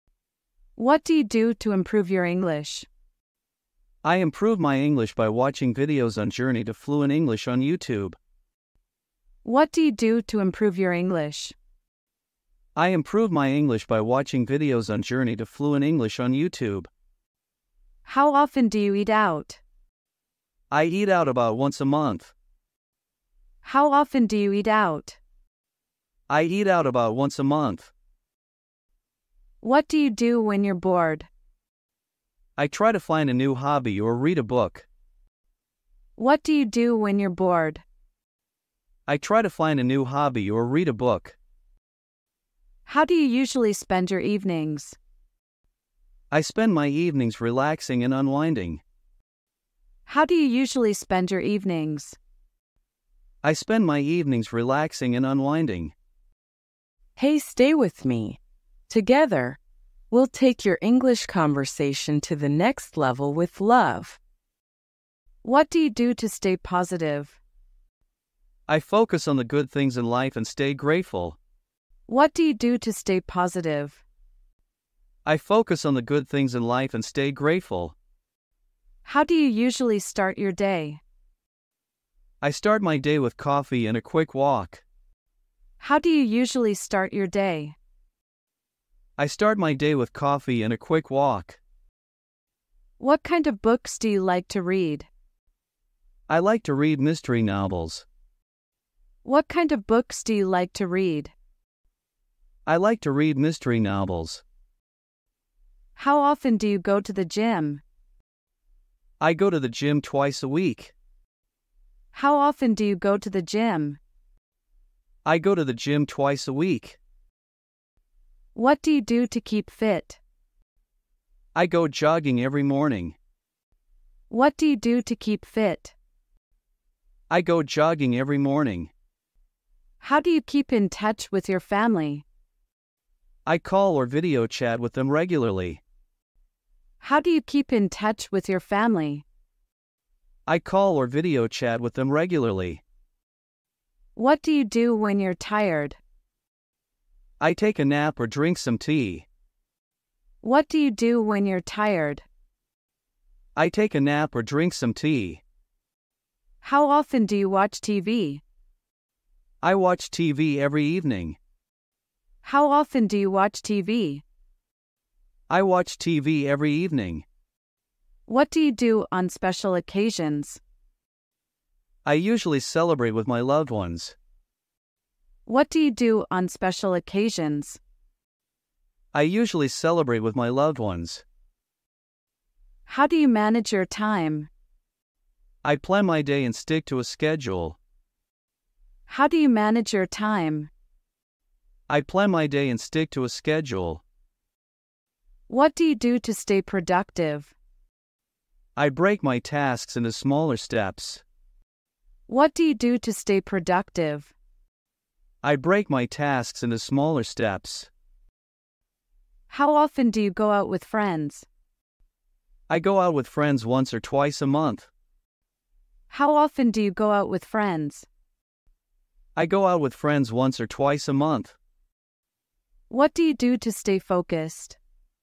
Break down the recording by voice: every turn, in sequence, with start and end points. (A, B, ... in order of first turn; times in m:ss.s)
0:00.8-0:02.9 A
0:04.0-0:08.2 B
0:09.4-0:11.5 A
0:12.8-0:16.9 B
0:18.0-0:19.6 A
0:20.7-0:22.3 B
0:23.6-0:25.2 A
0:26.3-0:27.9 B
0:29.6-0:31.3 A
0:32.6-0:34.9 B
0:36.2-0:37.8 A
0:39.1-0:41.4 B
0:42.8-0:45.0 A
0:46.3-0:48.8 B
0:50.0-0:52.2 A
0:53.4-0:55.9 B
0:57.2-0:58.4 C
0:58.9-0:59.6 C
1:00.1-1:04.2 C
1:05.4-1:07.4 A
1:08.7-1:11.4 B
1:12.1-1:14.0 A
1:15.2-1:17.9 B
1:19.0-1:21.0 A
1:22.4-1:24.8 B
1:25.8-1:27.8 A
1:29.2-1:31.6 B
1:33.0-1:35.1 A
1:36.3-1:38.0 B
1:39.2-1:41.3 A
1:42.6-1:44.4 B
1:46.0-1:47.8 A
1:49.2-1:50.9 B
1:52.1-1:54.0 A
1:55.2-1:57.0 B
1:58.5-2:00.2 A
2:01.5-2:03.2 B
2:04.3-2:05.9 A
2:07.3-2:08.9 B
2:10.0-2:12.2 A
2:13.4-2:15.8 B
2:17.0-2:19.2 A
2:20.4-2:22.8 B
2:24.1-2:26.0 A
2:27.4-2:29.3 B
2:30.4-2:32.2 A
2:33.6-2:35.4 B
2:36.6-2:38.4 A
2:39.6-2:41.4 B
2:42.4-2:44.2 A
2:45.5-2:47.2 B
2:48.3-2:50.6 A
2:52.0-2:54.2 B
2:55.4-2:57.8 A
2:59.1-3:01.2 B
3:02.8-3:04.5 A
3:05.6-3:07.8 B
3:09.1-3:10.7 A
3:11.9-3:14.0 B
3:15.5-3:17.5 A
3:18.8-3:21.2 B
3:22.3-3:24.3 A
3:25.4-3:27.9 B
3:29.5-3:31.5 A
3:32.7-3:34.9 B
3:36.1-3:38.1 A
3:39.4-3:41.6 B
3:42.9-3:44.8 A